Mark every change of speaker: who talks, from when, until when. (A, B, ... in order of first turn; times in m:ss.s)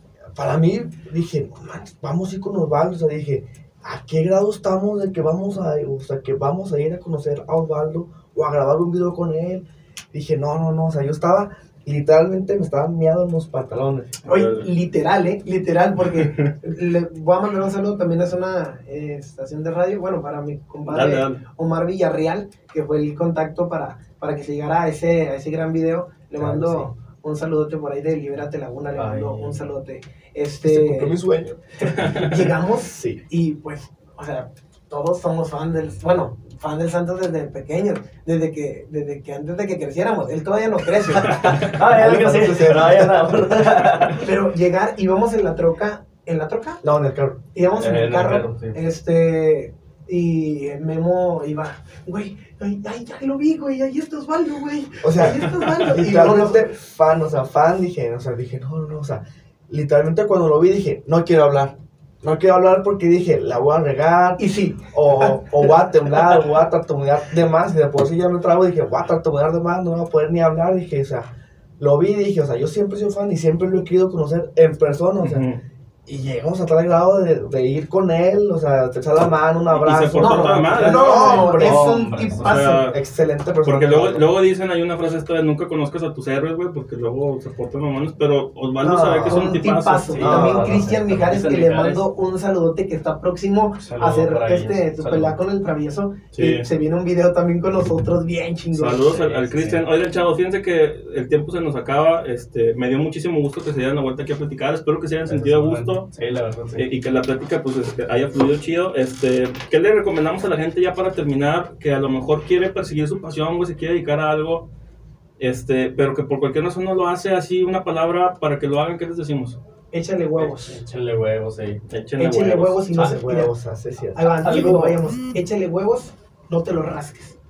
0:00.4-0:14.2 A
0:14.2-0:14.7 B
0:14.3-0:31.2 C
0:16.2-0:16.5 B
0:20.9-0:21.4 B
0:26.4-0:26.9 A
0:29.0-0:29.7 D
0:30.6-0:33.2 A
0:31.8-0:41.7 C
0:32.0-0:32.3 B
0:41.2-0:44.3 D
0:41.7-0:43.3 A
0:44.1-0:46.8 C
0:46.8-0:47.4 A
0:47.5-0:56.6 C
0:47.7-0:48.8 D
0:55.0-1:15.5 A
1:04.4-1:05.7 C
1:15.2-1:15.6 B
1:16.1-1:22.0 A
1:19.7-1:21.6 B
1:20.2-1:22.9 C
1:21.2-1:22.6 D
1:22.4-1:23.0 B
1:22.6-1:24.3 A
1:23.6-1:30.3 B
1:28.8-1:29.6 A
1:29.3-1:39.1 C
1:30.1-1:32.1 D
1:30.2-1:30.8 A
1:33.8-1:35.4 D
1:36.3-1:36.7 B
1:38.7-1:46.1 B
1:39.1-1:39.8 D
1:45.3-1:46.9 D
1:46.8-1:54.7 B
1:55.4-1:59.6 B
1:59.9-2:00.8 C
2:00.6-2:01.8 D
2:01.9-2:02.8 B
2:02.2-2:03.5 C
2:02.9-2:04.8 A
2:04.2-2:07.4 C
2:04.4-2:05.0 D